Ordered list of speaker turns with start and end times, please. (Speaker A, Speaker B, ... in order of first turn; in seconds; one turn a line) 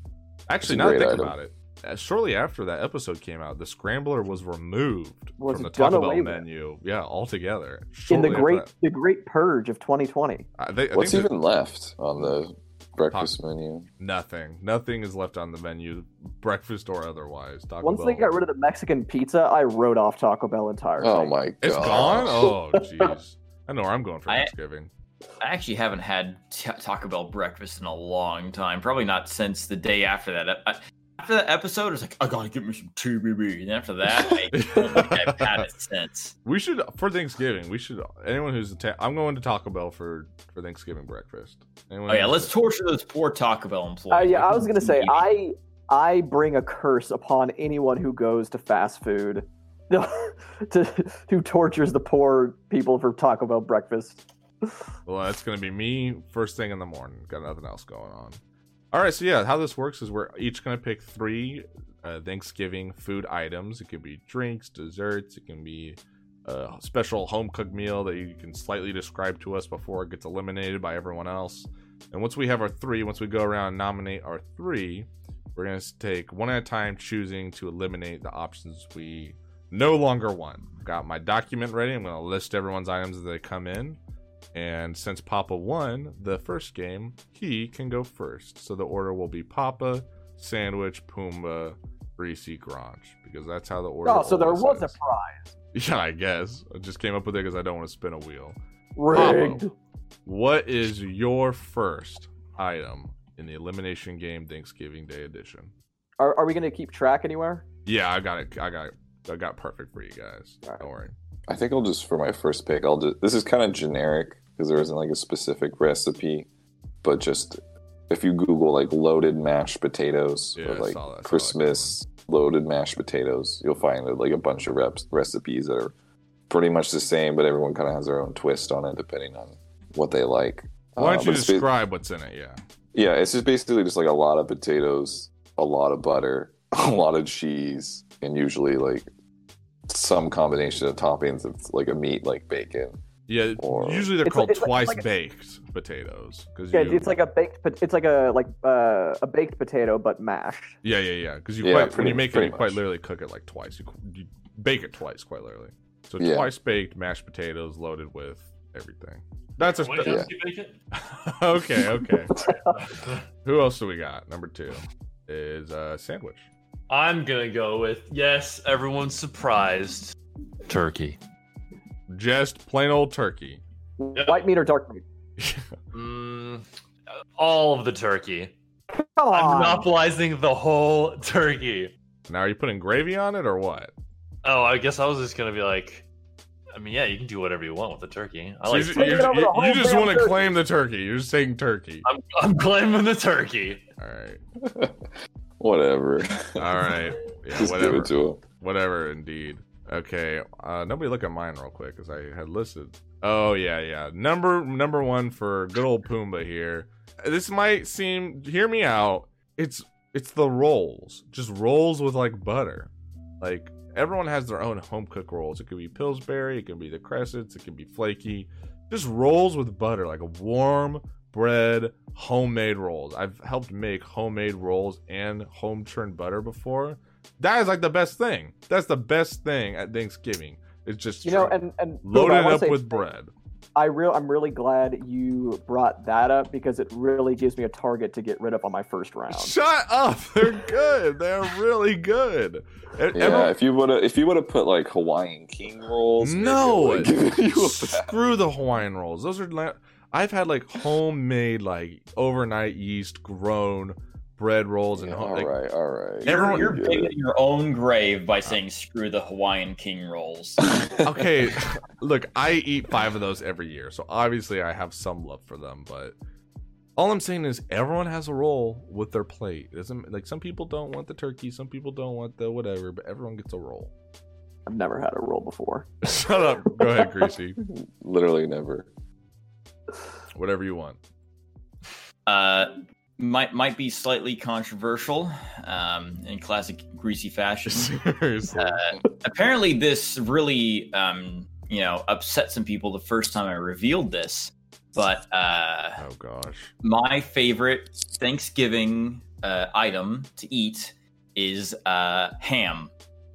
Speaker A: 0.5-8.7
Speaker B: 0.6-1.4
Speaker C: 5.4-6.4
Speaker C: 8.1-10.5
Speaker A: 10.6-11.3
Speaker B: 10.9-13.9
Speaker A: 14.0-18.3
Speaker C: 17.8-21.4
Speaker B: 21.0-22.5
Speaker A: 21.6-24.9
Speaker D: 25.4-36.4
Speaker A: 34.5-35.7
Speaker A: 36.5-42.5
Speaker D: 42.1-45.3
Speaker C: 44.1-54.2
Speaker A: 55.1-58.4
Speaker A: 58.9-84.0
Speaker A: 84.5-95.0
Speaker C: 94.0-95.5
Speaker A: 95.7-98.6
Speaker C: 99.0-99.7
Speaker A: 99.1-99.7
Speaker A: 100.3-105.7
Speaker C: 106.2-107.6
Speaker A: 107.9-111.1
Speaker B: 111.5-116.5
Speaker B: 117.0-125.9
Speaker A: 120.6-122.0
Speaker B: 126.5-131.7
Speaker A: 131.0-132.6
Speaker B: 132.9-139.1
Speaker B: 139.9-143.0
Speaker A: 143.3-147.2
Speaker B: 143.6-144.1
Speaker C: 144.2-145.0
Speaker C: 146.7-150.8
Speaker A: 150.8-160.3
Speaker B: 151.6-152.8
Speaker B: 156.2-156.5
Speaker E: 159.7-160.8
Speaker B: 160.0-160.3
Speaker A: 160.9-162.4
Speaker E: 162.7-163.2
Speaker A: 163.4-166.5
Speaker E: 166.9-171.2
Speaker A: 172.1-173.6
Speaker C: 174.0-175.0
Speaker E: 174.2-174.4
Speaker A: 175.4-175.7
Speaker E: 175.9-176.6
Speaker E: 177.4-178.5
Speaker C: 178.9-179.9
Speaker E: 179.3-181.9
Speaker A: 182.3-183.9
Speaker E: 184.4-186.1
Speaker E: 186.7-189.3
Speaker A: 188.7-192.1
Speaker C: 188.9-190.5
Speaker E: 192.1-193.8
Speaker A: 194.0-194.4
Speaker B: 194.6-195.0
Speaker B: 195.6-196.9
Speaker A: 196.6-233.3
Speaker B: 197.6-198.4
Speaker C: 231.2-233.0
Speaker C: 233.8-239.6
Speaker A: 239.3-243.6
Speaker B: 243.1-248.2
Speaker A: 246.2-255.6
Speaker B: 255.0-257.1
Speaker A: 256.2-256.8
Speaker D: 256.2-260.6
Speaker A: 261.0-266.1
Speaker A: 267.0-273.9
Speaker C: 274.7-275.9
Speaker A: 276.0-277.6
Speaker B: 277.6-278.9
Speaker A: 280.4-281.0
Speaker D: 282.3-287.9
Speaker A: 287.7-289.0
Speaker D: 288.5-296.0
Speaker A: 296.0-296.7
Speaker D: 296.8-302.9